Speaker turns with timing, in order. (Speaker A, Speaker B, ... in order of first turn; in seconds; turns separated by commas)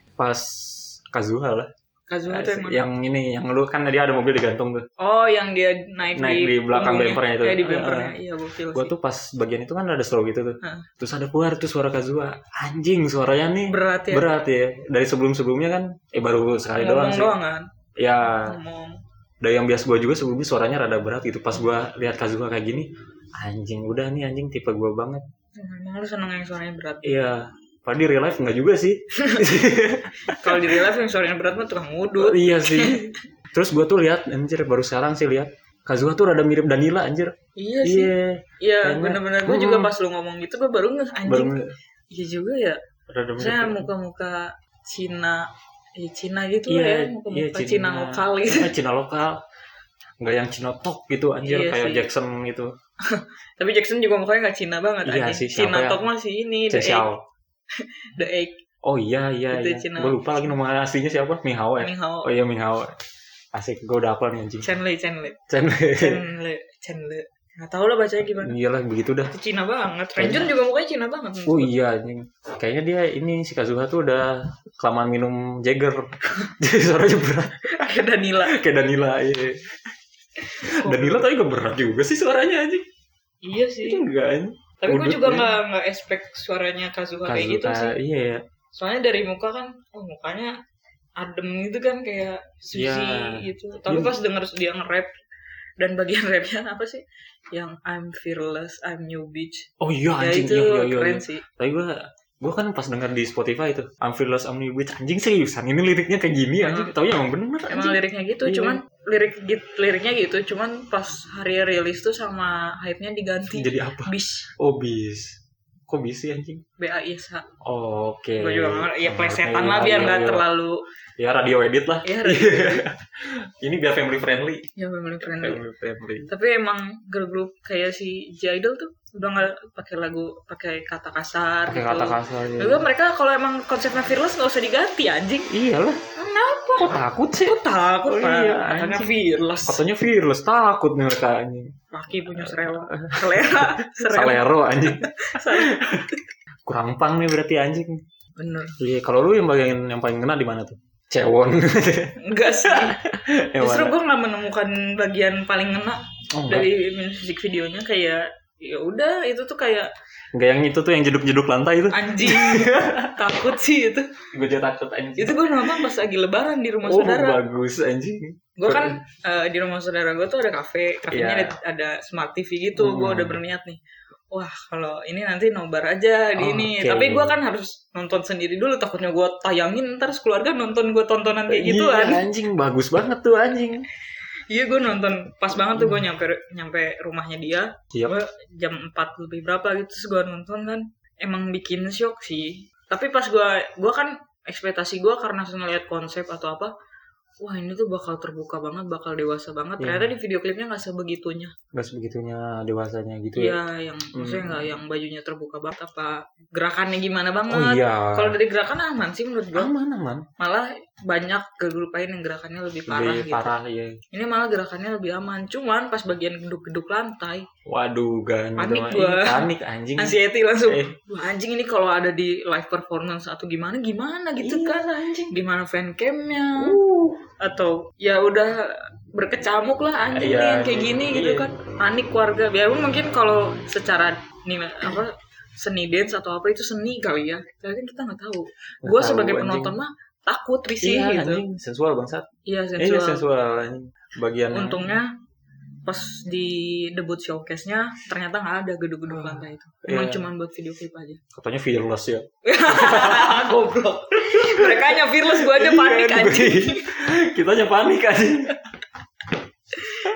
Speaker A: 0.2-1.7, Speaker B: 2.1-2.8, Speaker A: 2.3-4.8, Speaker B: 5.0-8.9, Speaker A: 6.2-8.1, Speaker A: 8.7-17.4, Speaker B: 10.6-10.9, Speaker B: 13.7-14.3, Speaker B: 16.8-17.7, Speaker A: 18.0-18.6, Speaker B: 18.3-19.0, Speaker A: 19.4-25.2, Speaker B: 25.6-27.2, Speaker A: 27.0-30.8, Speaker B: 29.2-29.5, Speaker B: 30.3-33.1, Speaker A: 32.2-37.3, Speaker B: 37.5-41.5, Speaker A: 37.8-39.9, Speaker A: 41.3-41.7, Speaker B: 42.1-42.8, Speaker A: 43.1-43.9, Speaker B: 43.4-48.7, Speaker A: 46.7-49.4, Speaker A: 50.2-52.7, Speaker B: 51.4-52.1, Speaker B: 53.0-57.1, Speaker A: 55.0-56.0, Speaker A: 56.7-57.2, Speaker B: 57.7-58.6, Speaker A: 58.8-62.9, Speaker B: 59.5-60.2, Speaker B: 61.8-62.3, Speaker A: 63.5-64.7, Speaker B: 64.6-65.4, Speaker A: 65.5-66.2, Speaker B: 66.0-68.5, Speaker A: 68.4-69.3, Speaker B: 69.3-71.7, Speaker A: 70.2-70.5, Speaker A: 71.5-77.8, Speaker B: 77.7-78.6, Speaker A: 78.4-79.6, Speaker A: 80.5-82.8, Speaker B: 80.7-81.2, Speaker B: 83.4-84.0, Speaker A: 83.8-85.5, Speaker B: 84.8-87.9, Speaker A: 87.3-88.4, Speaker B: 88.7-90.5, Speaker B: 91.2-95.1, Speaker A: 92.7-94.1, Speaker B: 95.8-99.7, Speaker A: 99.8-108.8, Speaker B: 100.2-101.4, Speaker B: 106.6-106.9, Speaker B: 107.7-114.5, Speaker A: 113.5-115.4, Speaker A: 115.9-116.6, Speaker B: 116.8-117.4, Speaker A: 117.6-120.4, Speaker B: 118.4-120.8, Speaker A: 121.2-124.7, Speaker B: 122.0-122.8, Speaker B: 124.8-125.6, Speaker A: 125.2-126.3, Speaker B: 126.3-135.5, Speaker A: 131.7-132.8, Speaker A: 135.5-136.0, Speaker B: 136.2-139.8, Speaker A: 136.8-139.1, Speaker A: 139.7-141.7, Speaker B: 141.9-146.2, Speaker A: 142.3-146.1, Speaker A: 146.7-148.0, Speaker B: 148.4-148.7, Speaker A: 148.8-153.9, Speaker B: 152.2-153.0, Speaker B: 153.6-159.9, Speaker A: 156.3-156.7, Speaker A: 160.3-163.2, Speaker B: 161.9-164.1, Speaker A: 164.3-165.8, Speaker B: 165.2-167.4, Speaker A: 166.8-169.0, Speaker B: 168.6-173.8, Speaker A: 171.1-171.5, Speaker A: 172.8-173.4, Speaker B: 174.3-182.2, Speaker A: 176.4-177.3, Speaker A: 181.5-183.8, Speaker B: 184.5-196.7, Speaker B: 197.4-201.5, Speaker A: 199.8-200.1, Speaker A: 201.7-203.6, Speaker B: 203.3-209.7, Speaker A: 204.1-204.7, Speaker A: 207.5-208.4, Speaker A: 209.5-210.3, Speaker B: 210.4-213.5, Speaker A: 212.9-214.0, Speaker B: 214.1-217.5, Speaker A: 217.7-220.9, Speaker B: 218.6-226.8, Speaker A: 224.4-225.3, Speaker A: 226.6-227.2, Speaker B: 227.4-241.4, Speaker A: 230.1-231.5, Speaker A: 238.8-239.8, Speaker A: 240.8-242.2, Speaker B: 242.4-243.3, Speaker A: 242.8-244.9, Speaker B: 244.5-245.1, Speaker B: 245.8-251.2, Speaker A: 249.1-250.2, Speaker A: 251.3-253.5, Speaker B: 252.4-256.8, Speaker A: 254.2-258.6